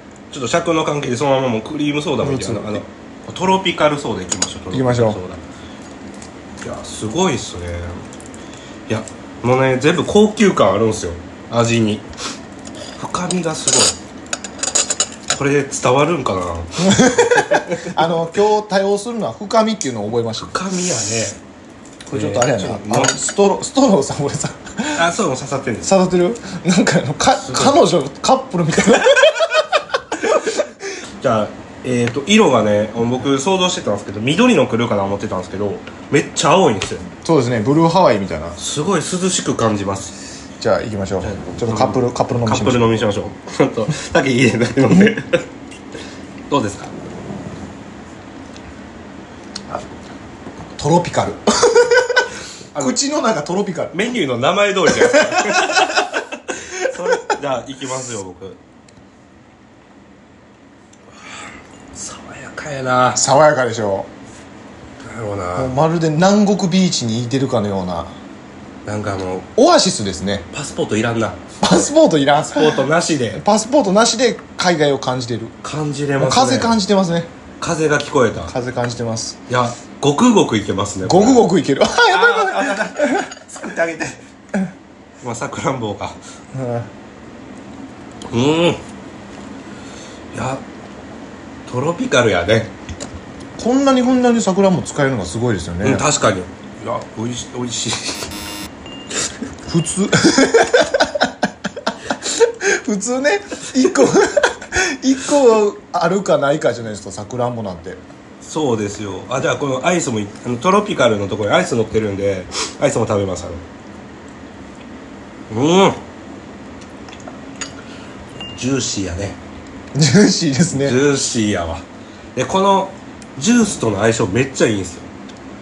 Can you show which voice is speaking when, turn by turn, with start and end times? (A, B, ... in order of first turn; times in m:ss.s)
0:00.3-0:05.4 A
0:02.2-0:02.8 B
0:04.7-0:05.2 B
0:06.6-0:08.0 A
0:08.9-0:12.1 A
0:13.0-0:14.0 A
0:15.3-0:18.0 A
0:16.8-0:20.6 B
0:20.4-0:21.4 A
0:22.1-0:25.1 B
0:22.1-0:23.2 A
0:25.0-0:25.9 A
0:25.8-0:29.8 B
0:27.4-0:27.8 A
0:31.2-0:37.1 A
0:37.2-0:38.6 B
0:38.6-0:40.2 A
0:40.6-0:42.9 B
0:41.2-0:45.4 A
0:46.5-0:46.9 A
0:50.8-0:54.0 B
0:52.7-0:53.0 A
0:53.9-0:58.6 A
0:54.9-0:56.0 B
0:57.0-0:57.3 B
1:02.0-1:03.2 A
1:03.1-1:04.1 B
1:05.0-1:05.7 A
1:05.6-1:08.2 B
1:08.8-1:09.5 A
1:09.6-1:10.5 B
1:10.5-1:11.8 A
1:11.6-1:15.6 B
1:12.5-1:13.4 A
1:15.6-1:16.8 A
1:16.2-1:17.3 B
1:17.6-1:18.5 A
1:18.5-1:19.4 B
1:19.5-1:21.4 A
1:21.0-1:23.3 B
1:22.1-1:24.2 A
1:25.2-1:26.2 A
1:26.5-1:26.9 B
1:28.3-1:28.8 A
1:30.3-1:30.6 A
1:31.7-1:32.7 A
1:33.6-1:36.1 B
1:35.8-1:38.3 A
1:39.7-1:41.3 B
1:42.2-1:48.0 B
1:48.4-1:53.6 A
1:55.5-1:56.0 A
1:58.6-1:59.4 A
1:59.9-2:01.0 B
2:00.7-2:01.8 A
2:02.4-2:05.1 A